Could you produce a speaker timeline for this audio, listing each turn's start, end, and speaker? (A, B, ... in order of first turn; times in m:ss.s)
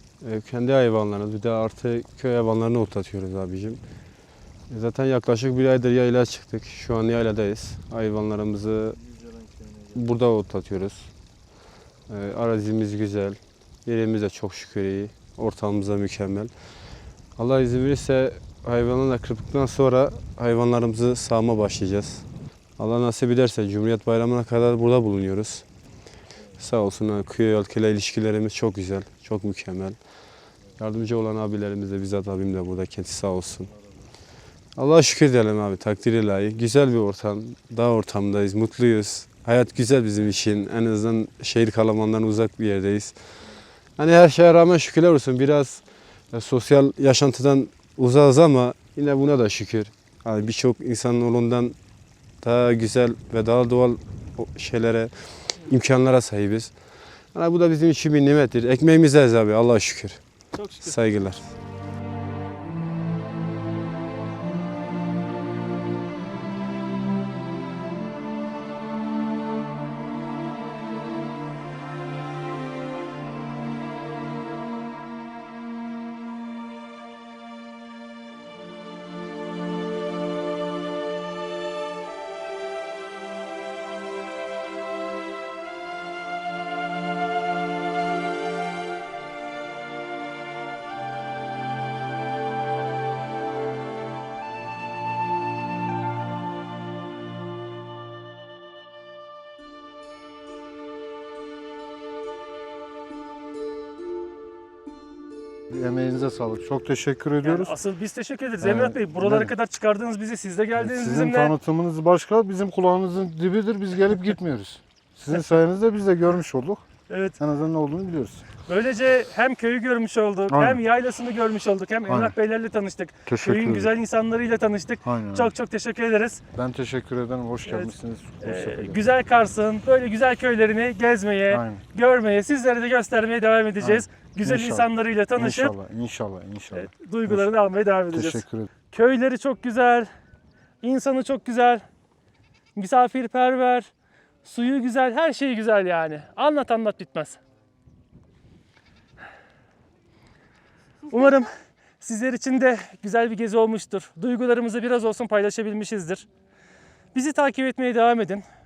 0:00.2-0:03.8 A
0:04.7-0:09.0 A
0:09.9-0:11.1 A
0:12.1-0:16.5 A
0:17.4-0:25.6 A
0:26.6-0:30.0 A
0:30.8-0:33.7 A
0:34.8-0:43.4 A
0:44.0-0:51.8 A
0:52.4-0:56.8 A
0:57.3-1:01.5 A
1:00.5-1:01.0 B
1:45.7-1:47.8 C
1:47.4-1:51.5 B
1:48.6-1:49.5 C
1:50.8-1:56.8 C
1:57.1-1:57.4 B
1:57.4-1:58.4 C
1:58.7-2:06.4 B
2:00.5-2:00.8 C
2:02.1-2:02.4 C
2:03.2-2:03.9 C
2:05.0-2:05.5 C
2:06.5-2:09.0 C
2:07.6-2:15.7 B
2:11.5-2:11.8 C
2:13.8-2:17.5 C
2:16.7-2:20.1 B
2:18.1-2:18.7 C
2:20.8-2:21.8 B
2:22.8-2:23.9 B
2:24.4-2:27.4 B
2:31.1-2:31.5 B
2:32.0-2:36.3 B
2:37.1-2:38.4 B